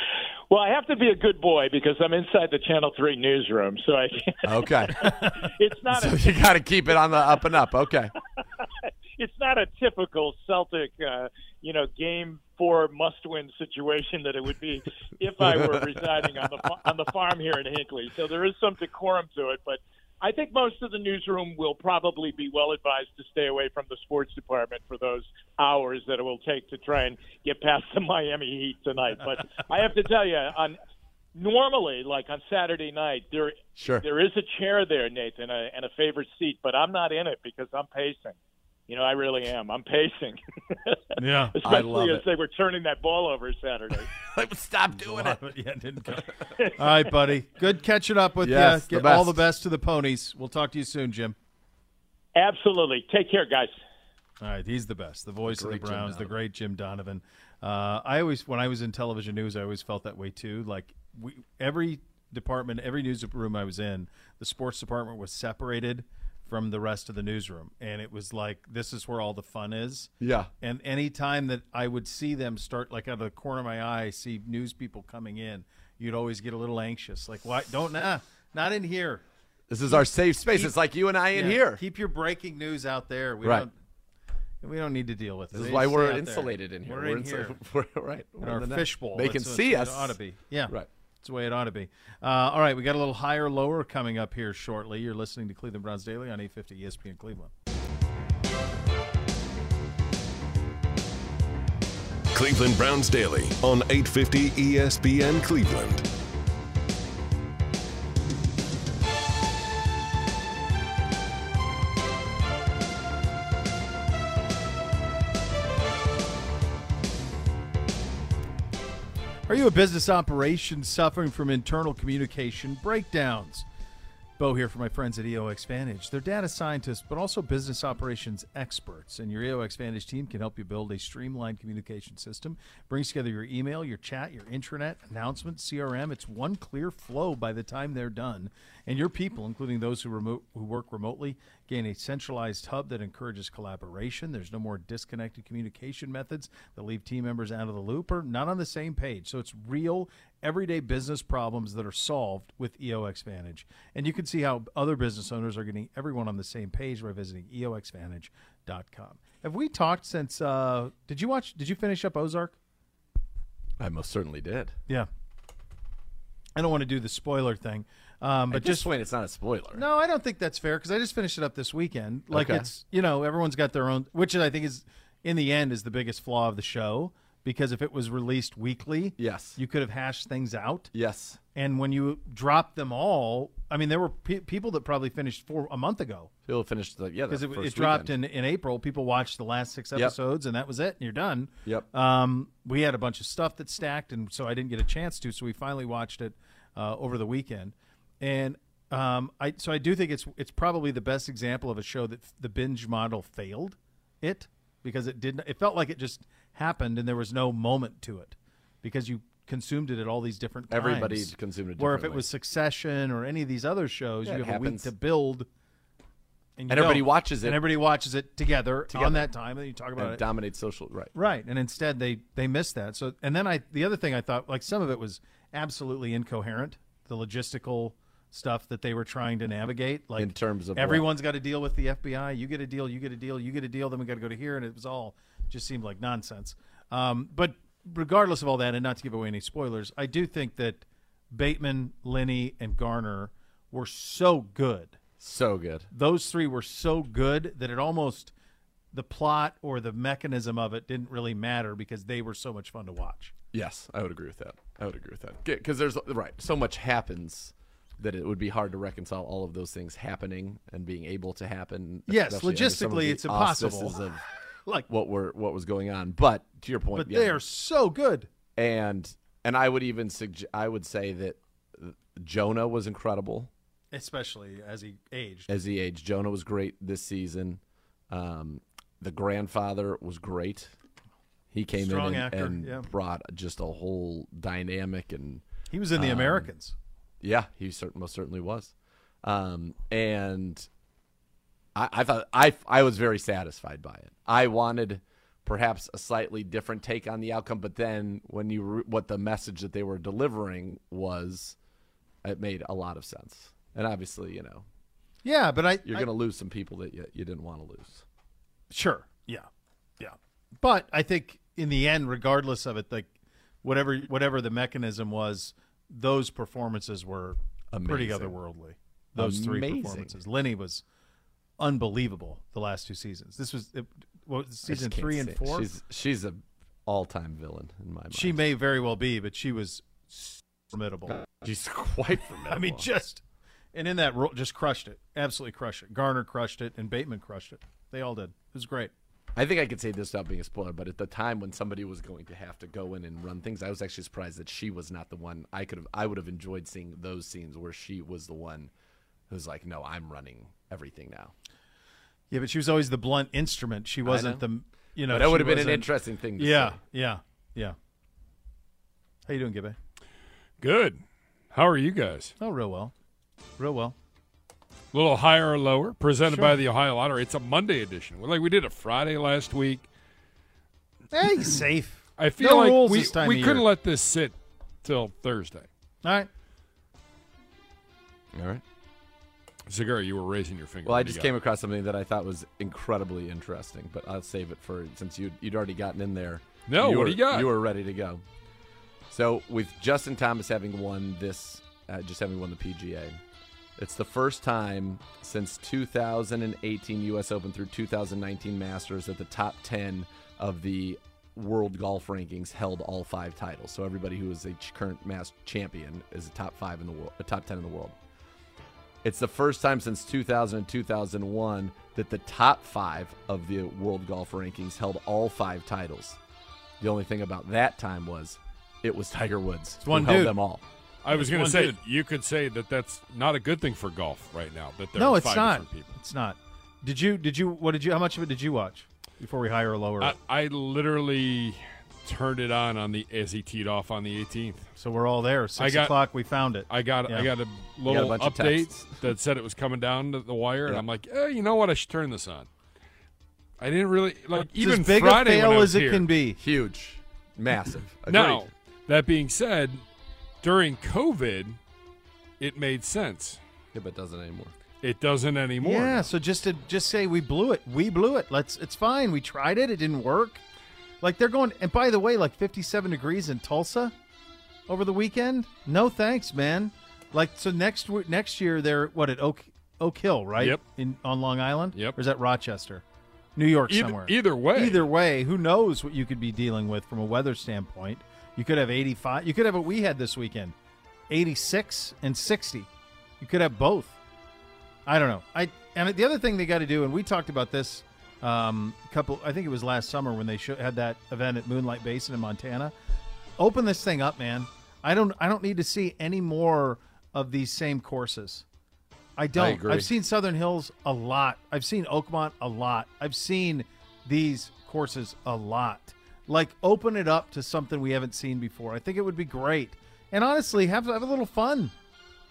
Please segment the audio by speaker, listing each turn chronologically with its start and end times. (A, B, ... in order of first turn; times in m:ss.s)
0:00.5-0:06.3 A
0:04.4-0:05.0 B
0:05.0-0:05.5 C
0:05.9-0:08.1 B
0:08.6-0:30.8 A
0:15.6-0:16.7 B
0:31.3-0:38.4 A
0:33.8-0:34.0 B
0:38.9-0:44.1 A
0:41.2-0:41.6 C
0:41.6-0:42.2 B
0:44.1-0:45.4 B
0:45.0-0:51.4 C
0:48.4-0:49.4 B
0:52.3-0:53.8 A
0:54.4-1:19.2 C
0:55.4-0:56.3 B
1:10.2-1:10.5 B
1:19.7-1:21.8 B
1:21.3-1:23.7 C
1:24.6-1:27.6 C
1:25.5-1:30.2 B
1:28.4-1:37.5 C
1:42.3-1:46.0 D
1:59.5-2:03.6 C
2:04.4-2:42.6 C
2:43.8-2:44.8 B
2:46.6-2:48.9 C
2:48.5-2:49.8 B
2:49.7-3:00.9 C
2:52.3-2:52.7 B
2:59.2-2:59.6 B
3:00.9-3:01.4 B
3:01.5-3:06.3 C
3:06.5-3:08.1 B
3:07.3-3:35.5 C
3:30.7-3:32.2 B
3:34.2-3:34.9 B
3:36.6-3:40.2 C
3:36.7-3:37.6 B
3:38.9-3:39.3 B
3:40.0-3:41.1 B
3:41.1-4:05.0 C
3:50.2-3:51.0 B
4:05.2-4:05.9 B
4:05.9-4:08.3 C
4:08.9-4:13.3 C
4:13.5-4:24.2 B
4:22.1-4:24.0 C
4:24.9-4:27.4 B
4:26.9-4:28.3 C
4:28.6-4:33.5 B
4:33.9-4:35.5 C
4:35.5-4:40.7 B
4:41.5-4:45.4 B
4:41.7-4:42.9 C
4:45.7-4:46.7 C
4:45.9-4:46.5 B
4:47.2-4:50.7 B
4:51.7-5:01.6 B
5:02.2-5:04.6 B
5:05.2-5:06.1 C
5:05.8-5:08.0 B
5:08.7-5:09.5 C
5:10.0-5:13.1 C
5:13.6-5:20.8 C
5:17.7-5:18.3 B
5:19.2-5:20.1 B
5:21.6-5:25.7 C
5:24.7-5:28.4 B
5:28.1-5:31.2 C
5:31.1-5:32.8 B
5:32.5-5:33.2 C
5:33.7-5:38.9 C
5:39.3-5:48.7 B
5:49.3-5:51.3 B
5:52.3-5:57.8 C
5:54.0-5:54.4 B
5:55.1-5:56.8 B
5:59.3-5:59.8 C
6:00.6-6:01.0 E
6:01.5-6:02.3 E
6:02.4-6:02.9 C
6:03.6-6:03.9 C
6:04.9-6:09.9 E
6:06.3-6:06.5 C
6:11.1-6:13.6 C
6:12.2-6:15.7 E
6:16.0-6:16.3 C
6:18.3-6:18.6 B
6:19.7-6:21.3 E
6:20.8-6:28.2 B
6:26.7-6:27.5 E
6:29.1-6:33.2 B
6:33.8-6:47.9 B
6:49.0-6:56.2 B
6:56.8-7:00.6 B
6:59.8-7:00.4 C
7:01.0-7:05.9 E
7:01.1-7:01.8 C
7:05.0-7:10.2 C
7:10.0-7:14.7 E
7:14.8-7:17.3 C
7:15.6-7:16.0 E
7:16.7-7:22.5 E
7:17.8-7:18.9 B
7:23.6-7:26.1 E
7:24.6-7:26.4 C
7:26.4-7:28.4 B
7:28.1-7:29.8 E
7:30.4-7:31.6 E
7:32.4-7:33.4 E
7:33.7-7:34.5 B
7:34.8-7:36.1 E
7:35.6-7:40.4 C
7:41.0-7:43.9 C
7:44.7-7:52.8 C
7:53.4-8:00.5 C
7:53.7-7:54.9 E
8:01.1-8:02.7 C
8:03.2-8:04.0 C
8:04.9-8:12.7 C
8:13.4-8:18.4 C
8:19.2-8:31.7 C
8:19.5-8:19.8 B